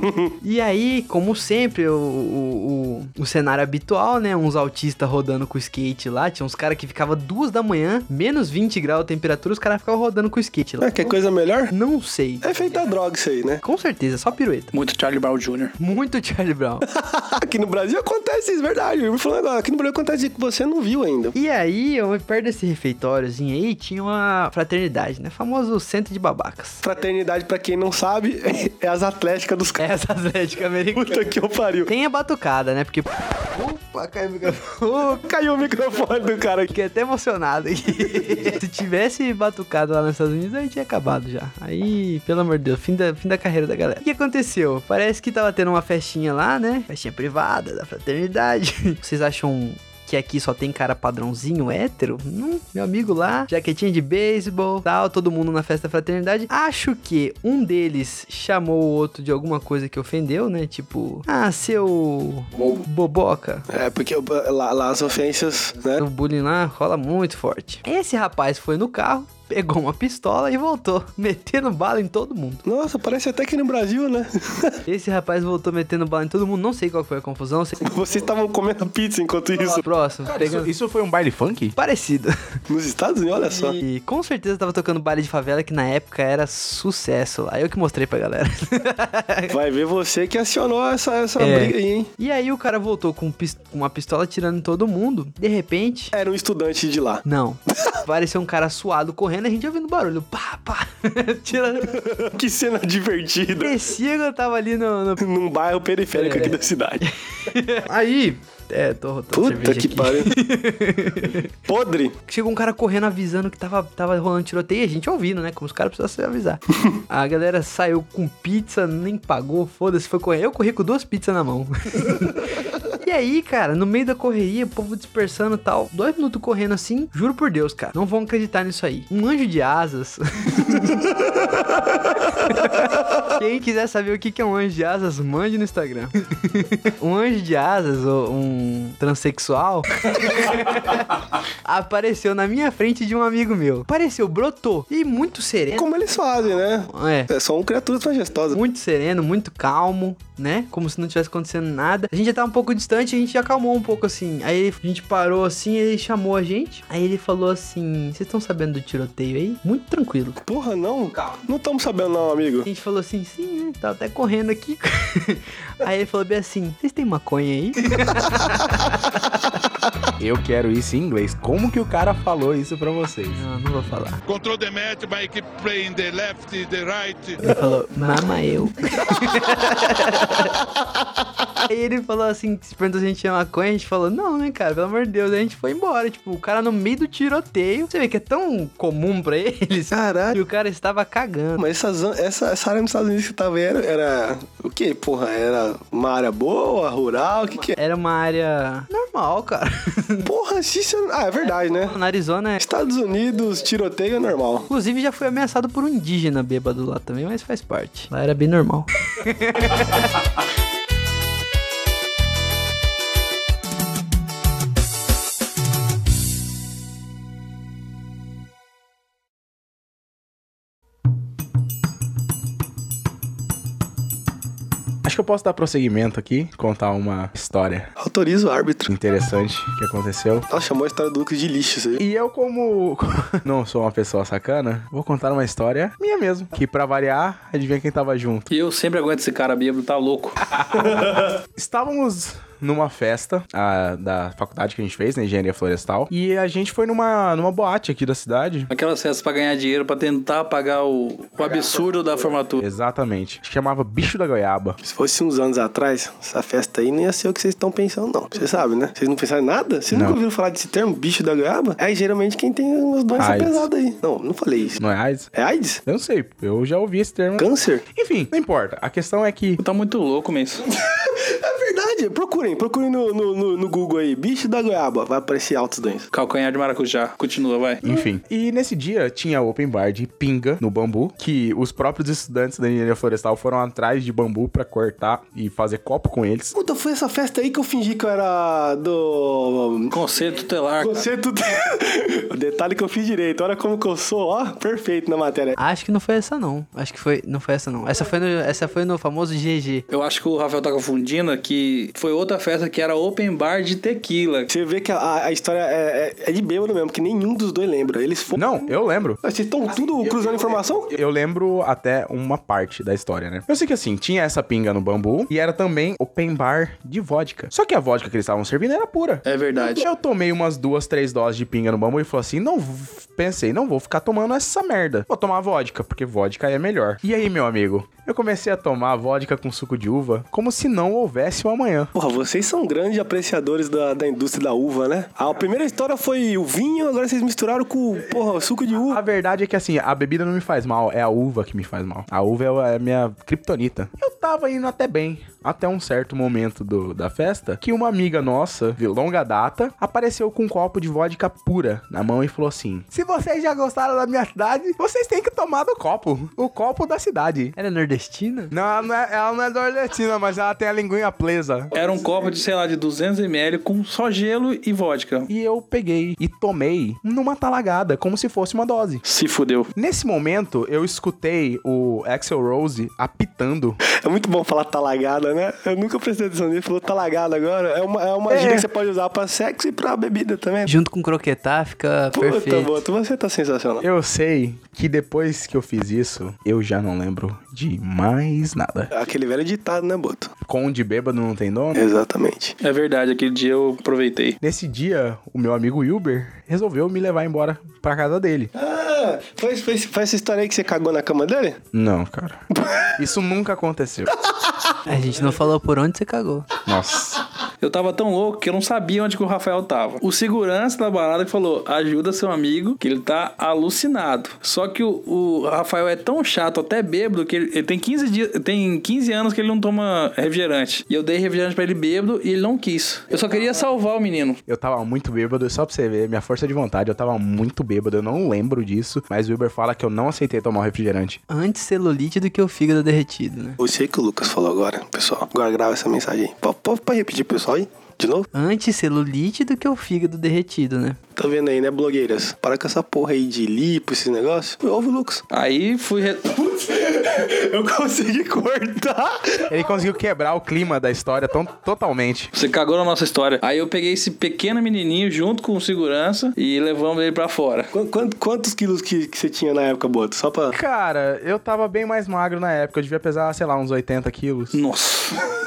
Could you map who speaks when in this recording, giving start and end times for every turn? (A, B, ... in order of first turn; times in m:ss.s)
0:00.4-0:11.1 A
0:10.8-0:11.7 B
0:11.7-0:12.8 A
0:12.4-0:13.6 B
0:13.6-0:14.7 A
0:14.7-0:15.8 C
0:15.8-0:16.8 A
0:16.9-0:21.4 B
0:21.4-0:26.8 A
0:26.8-0:29.8 B
0:29.8-0:31.3 A
0:31.0-0:31.9 B
0:31.9-0:35.2 A
0:35.1-0:36.7 B
0:36.7-1:03.6 A
1:03.7-1:06.0 B
1:06.0-1:12.6 A
1:12.6-1:14.8 B
1:14.9-1:17.8 A
1:17.8-1:19.8 B
1:19.6-1:20.7 A
1:20.3-1:21.8 D
1:21.8-1:22.3 A
1:22.7-1:23.8 B
1:23.5-1:29.6 A
1:29.5-1:32.1 B
1:31.4-1:36.1 A
1:36.1-1:37.2 B
1:37.2-1:42.0 A
1:41.8-1:43.8 B
1:43.6-1:45.2 A
1:45.2-1:47.0 B
1:46.1-1:51.5 A
1:49.3-1:50.3 B
1:51.7-1:52.1 B
1:52.3-2:02.5 A
2:03.0-2:11.1 A
2:12.3-2:25.9 A
2:25.7-2:28.6 B
2:26.9-2:27.3 A
2:28.5-2:40.4 A
2:40.4-2:42.7 B
2:42.6-2:49.0 A
2:50.2-2:53.4 D
2:53.3-2:54.2 A
2:54.3-2:57.4 E
2:57.4-3:00.6 A
3:01.7-3:11.6 A
3:09.9-3:10.4 B
3:11.6-3:17.8 B
3:17.8-3:20.3 A
3:20.2-3:21.9 B
3:21.6-3:22.6 A
3:22.6-3:24.6 B
3:24.7-3:30.1 A
3:45.0-3:47.9 D
3:48.0-3:48.9 B
3:48.9-3:50.5 D
3:50.5-3:52.0 B
3:52.0-3:58.5 D
3:58.5-4:00.5 C
4:00.6-4:08.7 D
4:08.7-4:12.6 C
4:12.6-4:14.8 D
4:14.8-4:24.8 B
4:19.9-4:20.2 D
4:23.2-4:23.7 D
4:24.8-4:25.3 D
4:25.4-4:25.8 B
4:25.9-4:29.6 D
4:27.4-4:27.8 B
4:29.6-4:30.6 C
4:30.7-4:36.1 B
4:36.1-4:37.8 C
4:37.8-4:46.6 D
4:46.6-4:50.0 B
4:49.9-4:51.1 C
4:50.8-4:55.6 B
4:55.6-4:59.8 A
4:59.9-5:04.5 C
5:04.5-5:08.6 B
5:08.4-5:31.9 D
5:09.2-5:10.9 B
5:19.3-5:19.9 C
5:31.9-5:39.0 B
5:38.7-5:57.6 D
5:57.6-5:58.5 A
5:58.5-6:01.7 D
6:01.7-6:05.3 C
6:05.3-6:09.0 D
6:09.0-6:09.7 C
6:09.8-6:13.8 D
6:14.0-6:20.7 B
6:18.3-6:18.6 D
6:20.6-6:22.8 A
6:22.1-6:23.8 B
6:23.8-6:28.9 D
6:28.9-6:30.3 B
6:30.4-6:31.9 D
6:31.8-6:32.6 B
6:32.6-6:34.4 C
6:34.4-6:38.5 D
6:38.6-6:41.6 B
6:41.7-6:42.4 D
6:42.6-6:42.9 B
6:43.0-6:44.1 D
6:44.9-6:46.5 A
6:46.6-6:47.2 D
6:47.6-7:04.4 C
7:04.5-7:11.2 D
7:11.3-7:13.6 A
7:13.6-7:18.3 B
7:18.3-7:21.0 A
7:21.2-7:25.2 B
7:25.3-7:26.4 C
7:26.4-7:29.5 B
7:29.5-7:32.3 D
7:32.3-7:37.7 C
7:37.7-7:40.6 B
7:40.5-7:44.6 D
7:44.5-7:45.2 C